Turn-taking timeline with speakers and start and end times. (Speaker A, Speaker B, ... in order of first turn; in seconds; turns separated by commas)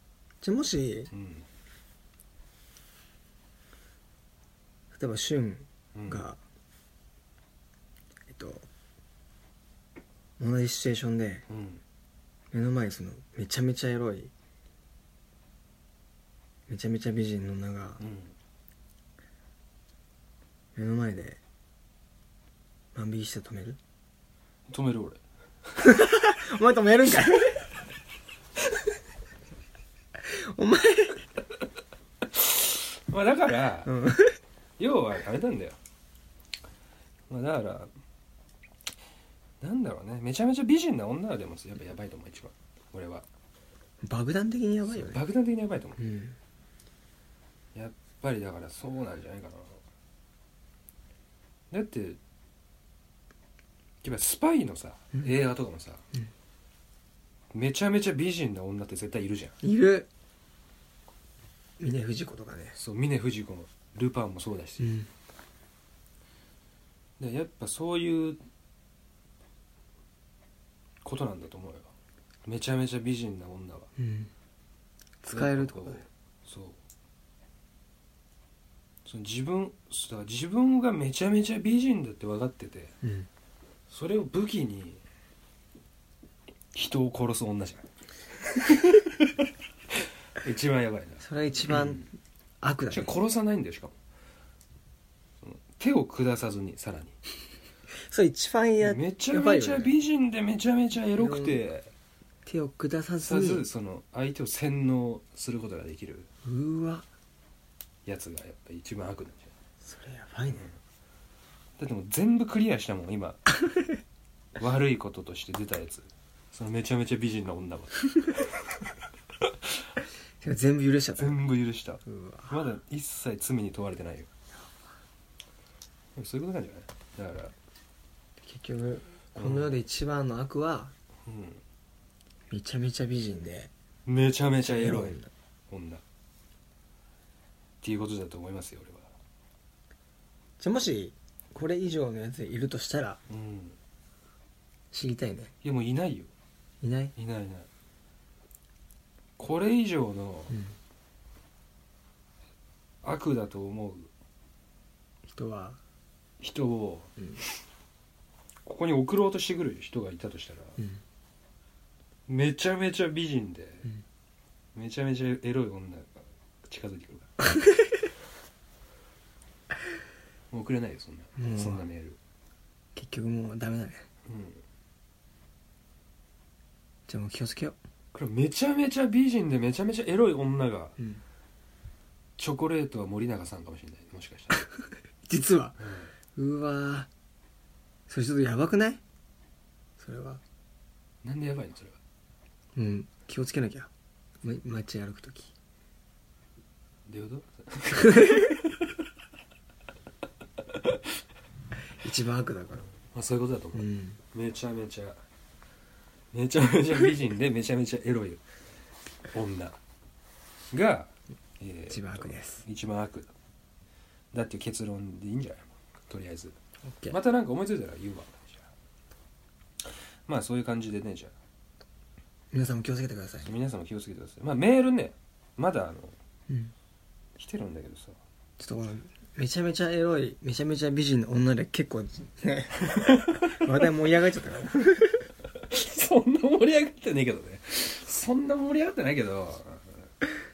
Speaker A: 0.4-1.1, Speaker B: 1.1-1.4, Speaker A: 4.9-6.4, Speaker B: 5.9-6.3, Speaker A: 8.3-8.7, Speaker A: 10.4-11.5, Speaker B: 11.5-11.8, Speaker A: 12.5-14.3, Speaker A: 16.7-18.0, Speaker B: 18.0-18.3, Speaker A: 20.8-21.4, Speaker A: 22.9-23.8, Speaker B: 24.7-25.2, Speaker A: 25.8-27.7, Speaker A: 30.2-31.3, Speaker B: 32.2-33.9, Speaker A: 33.9-34.4, Speaker B: 34.8-35.8, Speaker B: 37.3-37.9, Speaker B: 39.6-43.2, Speaker A: 44.0-45.2, Speaker B: 44.9-46.0, Speaker A: 46.0-46.4, Speaker B: 47.7-49.8, Speaker B: 51.7-52.2, Speaker B: 54.0-56.0, Speaker B: 57.5-59.5, Speaker A: 59.6-60.1, Speaker A: 61.8-62.8, Speaker B: 62.7-64.9, Speaker A: 64.8-65.1, Speaker B: 67.2-68.4, Speaker B: 71.0-71.9, Speaker B: 72.4-73.9, Speaker A: 74.0-74.3, Speaker A: 75.2-76.0, Speaker B: 75.3-76.8, Speaker B: 79.0-83.0, Speaker A: 83.0-83.3, Speaker B: 83.9-85.0, Speaker B: 86.7-87.9, Speaker B: 88.4-92.0, Speaker A: 91.2-92.1, Speaker A: 92.6-93.1, Speaker B: 92.9-93.9, Speaker B: 95.4-97.2, Speaker A: 98.0-99.9, Speaker B: 98.8-101.9, Speaker A: 101.2-101.6, Speaker A: 102.5-103.7, Speaker B: 103.2-106.3, Speaker A: 106.4-107.1, Speaker B: 108.0-109.5, Speaker A: 109.8-110.7, Speaker B: 111.8-113.5, Speaker B: 114.6-119.8, Speaker A: 120.4-121.5, Speaker B: 121.2-124.3, Speaker A: 122.0-122.5, Speaker B: 126.1-127.5, Speaker A: 128.4-130.9, Speaker B: 129.4-129.8, Speaker B: 131.2-131.6, Speaker A: 132.5-133.7, Speaker B: 134.1-136.0, Speaker A: 134.6-135.3, Speaker B: 137.8-139.1, Speaker A: 140.6-143.2, Speaker B: 143.3-143.8, Speaker A: 144.9-145.5, Speaker B: 145.6-146.3, Speaker A: 146.8-147.1, Speaker B: 147.2-147.7, Speaker B: 149.4-150.5, Speaker B: 153.0-154.1, Speaker A: 155.3-155.8, Speaker B: 156.4-157.1, Speaker B: 158.6-160.8, Speaker B: 162.3-163.9, Speaker B: 164.7-167.3, Speaker A: 167.4-168.0, Speaker B: 170.5-172.2, Speaker A: 171.3-171.8, Speaker A: 172.9-174.1, Speaker B: 174.2-174.6, Speaker A: 177.1-177.8, Speaker B: 178.1-180.9, Speaker B: 182.4-184.6, Speaker A: 185.3-187.1, Speaker B: 185.8-186.1, Speaker A: 188.1-189.0, Speaker A: 190.0-190.4, Speaker B: 191.2-192.0, Speaker A: 192.7-193.9, Speaker A: 194.4-195.5, Speaker B: 197.1-198.9, Speaker A: 197.9-198.6, Speaker B: 200.6-201.0, Speaker A: 202.0-202.9, Speaker B: 203.1-205.2, Speaker A: 203.7-204.2, Speaker B: 206.3-208.4, Speaker B: 209.3-209.8, Speaker B: 210.7-213.3, Speaker A: 211.9-212.6, Speaker B: 214.3-216.6, Speaker A: 216.8-217.2, Speaker B: 217.1-218.7, Speaker B: 219.8-221.3, Speaker A: 222.5-223.5, Speaker B: 223.4-226.2, Speaker B: 227.3-228.2, Speaker A: 228.6-235.3, Speaker B: 232.9-233.7, Speaker B: 235.6-240.1